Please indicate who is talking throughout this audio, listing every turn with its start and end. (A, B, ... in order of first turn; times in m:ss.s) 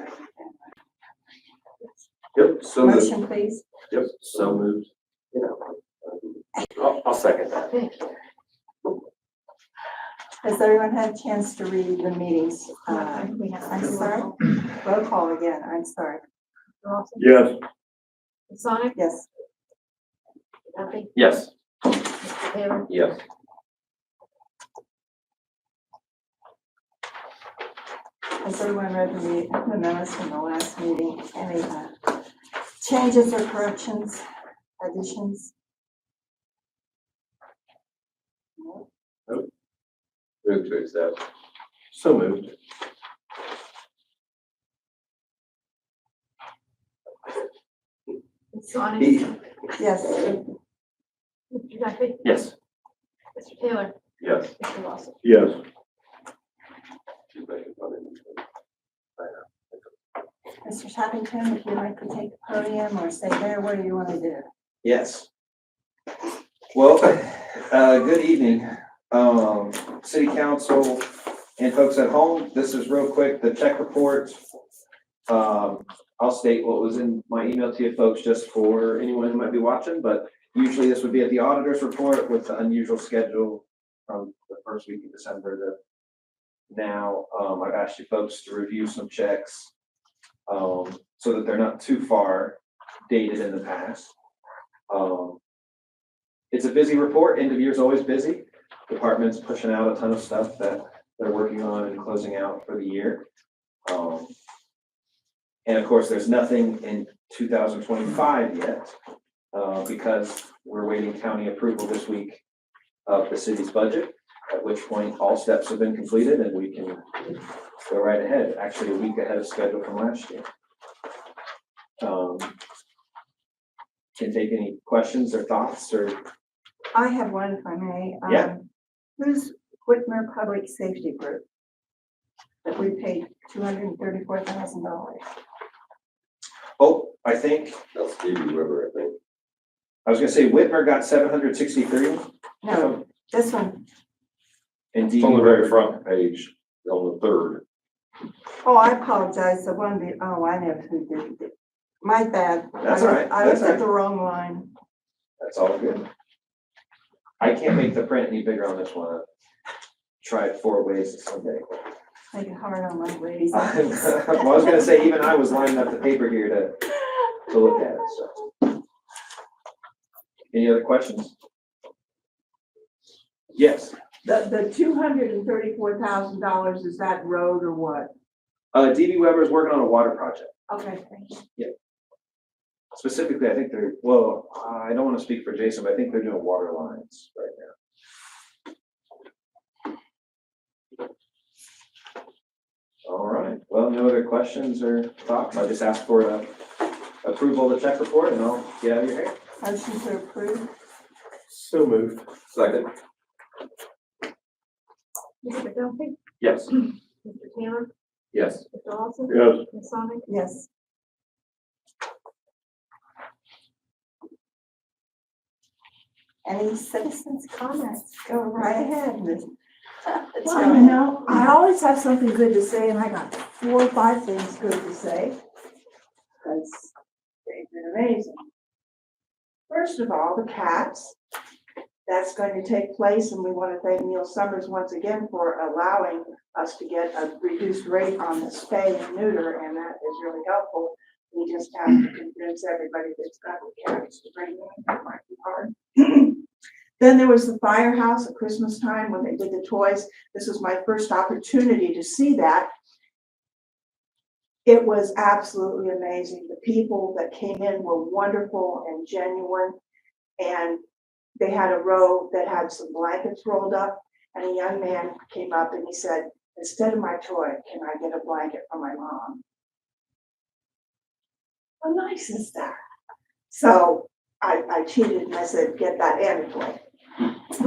0:02.4-0:03.1 A
0:02.8-0:03.6 B
0:03.9-0:07.7 A
0:07.7-0:08.1 C
0:10.4-0:16.2 B
0:12.9-0:14.3 C
0:16.8-0:17.4 C
0:17.2-0:17.6 A
0:18.5-0:19.0 C
0:19.0-0:19.2 B
0:20.7-0:22.9 C
0:21.2-0:21.4 D
0:28.4-0:32.2 B
0:32.8-0:34.2 B
0:34.8-0:35.5 B
0:40.4-0:41.1 A
0:48.5-0:49.4 C
0:49.8-0:50.4 B
0:51.5-0:52.5 C
0:53.3-0:55.2 C
0:55.2-0:55.6 A
0:57.4-0:58.3 A
1:00.6-1:04.5 B
1:04.8-1:05.3 D
1:06.7-1:14.4 D
1:15.3-1:25.8 D
1:26.7-1:29.7 D
1:30.5-1:34.1 D
1:34.9-1:35.4 D
1:36.5-1:43.2 D
1:43.8-1:44.3 D
1:45.6-1:48.9 D
1:49.5-1:52.4 D
1:53.0-1:57.0 D
1:57.9-2:00.5 D
2:02.0-2:02.5 D
2:04.2-2:06.2 D
2:06.9-2:08.6 B
2:09.2-2:11.4 B
2:12.6-2:15.2 B
2:16.8-2:17.8 D
2:17.9-2:19.1 A
2:20.0-2:23.0 D
2:22.6-2:23.8 B
2:24.9-2:25.8 D
2:25.2-2:27.6 A
2:28.6-2:34.7 B
2:32.8-2:33.8 D
2:35.4-2:36.1 D
2:37.4-2:39.2 D
2:40.2-2:41.8 D
2:42.3-2:44.5 B
2:43.5-2:46.9 D
2:47.5-2:48.4 D
2:50.5-2:51.3 D
2:53.5-2:53.9 D
2:54.2-2:58.1 E
2:58.7-3:00.5 D
3:00.7-3:01.4 E
3:02.9-3:07.7 D
3:13.0-3:16.6 D
3:17.2-3:19.3 D
3:19.6-3:20.7 B
3:21.5-3:22.8 A
3:25.4-3:26.2 C
3:26.7-3:27.9 C
3:28.7-3:30.2 C
3:29.3-3:29.6 A
3:30.3-3:30.7 B
3:36.4-3:39.5 B
3:40.1-3:41.0 B
3:40.4-3:45.4 E
3:46.4-3:46.9 B
3:47.4-3:48.4 E
3:49.7-3:51.2 E
3:52.1-4:06.4 E
4:07.0-4:12.7 E
4:14.6-4:19.8 E
4:20.4-4:20.8 E
4:21.4-4:29.4 E
4:31.8-4:32.7 E
4:33.5-4:36.8 E